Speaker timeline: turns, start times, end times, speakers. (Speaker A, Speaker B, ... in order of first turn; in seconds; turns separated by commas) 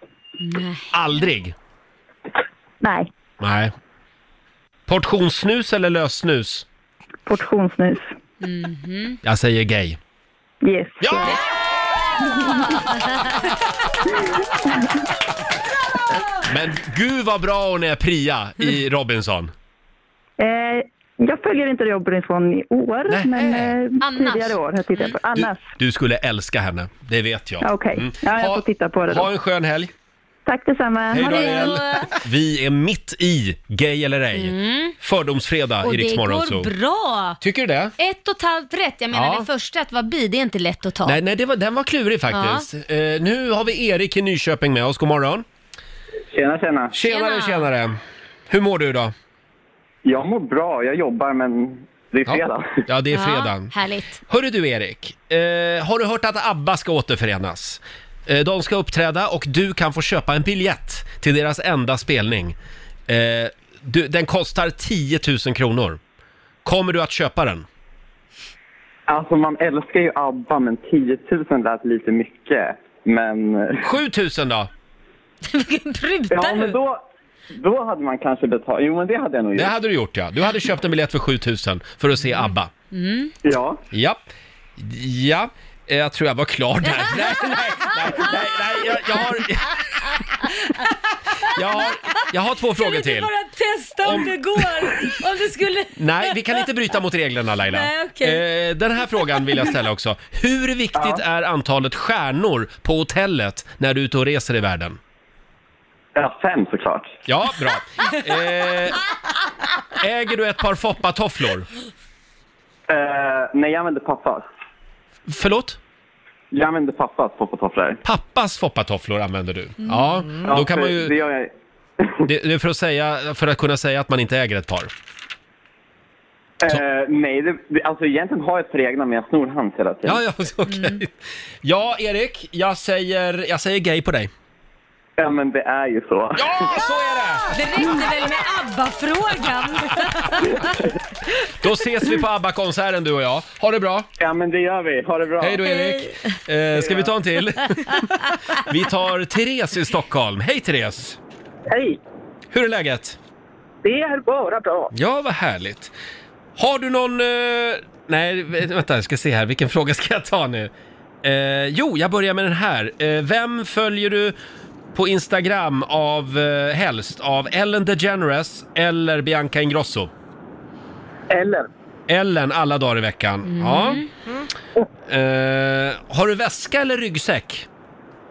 Speaker A: 0.4-0.9, Speaker B: 0.9-1.6, Speaker B: 3.4-3.7, Speaker B: 4.9-6.7, Speaker C: 7.3-8.0, Speaker A: 8.4-9.2, Speaker B: 9.2-10.0, Speaker B: 11.0-11.4, Speaker B: 16.5-19.5, Speaker C: 20.4-25.5, Speaker D: 21.3-21.7, Speaker D: 22.6-23.4, Speaker B: 23.1-23.8, Speaker A: 24.0-25.2, Speaker B: 25.3-29.9, Speaker C: 27.8-29.2, Speaker D: 28.6-29.1, Speaker C: 30.5-31.1, Speaker D: 30.5-31.0, Speaker B: 31.1-36.7, Speaker A: 31.1-32.1, Speaker A: 34.4-35.0, Speaker A: 35.8-37.4, Speaker B: 37.4-37.9, Speaker A: 38.0-41.2, Speaker B: 39.1-39.5, Speaker B: 41.0-45.5, Speaker A: 42.3-42.7, Speaker E: 46.3-46.9, Speaker B: 46.9-48.0, Speaker A: 47.0-47.7, Speaker B: 48.5-49.1, Speaker E: 50.0-52.8, Speaker B: 52.3-53.7, Speaker A: 53.1-54.2, Speaker B: 54.3-62.6, Speaker B: 63.1-66.0, Speaker B: 66.7-67.7, Speaker E: 69.1-73.9, Speaker B: 73.8-74.7, Speaker A: 75.5-76.8, Speaker E: 76.3-77.0, Speaker E: 77.5-79.7, Speaker B: 79.5-82.7, Speaker A: 82.9-83.3, Speaker E: 83.5-83.8, Speaker B: 83.9-84.2, Speaker B: 84.8-89.8, Speaker A: 87.0-88.4, Speaker B: 91.5-93.3, Speaker A: 92.8-96.7, Speaker B: 94.0-94.3, Speaker B: 96.0-105.0, Speaker A: 97.7-98.4, Speaker E: 101.0-101.2, Speaker E: 106.2-107.2, Speaker B: 107.3-109.0, Speaker B: 110.0-111.7, Speaker E: 112.9-114.5, Speaker B: 115.3-115.8, Speaker E: 116.5-118.0, Speaker B: 118.0-121.1, Speaker E: 120.4-122.1, Speaker B: 122.3-124.9, Speaker E: 126.6-130.2, Speaker B: 130.1-134.3, Speaker A: 130.7-131.0, Speaker E: 135.2-136.5, Speaker B: 136.4-137.9, Speaker A: 137.5-140.7, Speaker B: 139.9-140.4, Speaker B: 141.5-144.1, Speaker E: 144.2-145.6, Speaker B: 145.4-151.2, Speaker A: 145.7-146.1, Speaker E: 146.8-147.1, Speaker D: 151.7-152.0, Speaker B: 152.5-153.2, Speaker D: 153.8-154.9, Speaker B: 154.9-155.9, Speaker B: 156.6-160.7, Speaker B: 161.2-164.4, Speaker B: 164.9-170.1, Speaker D: 171.3-171.6, Speaker B: 172.1-174.0, Speaker A: 173.5-174.1, Speaker B: 175.1-177.7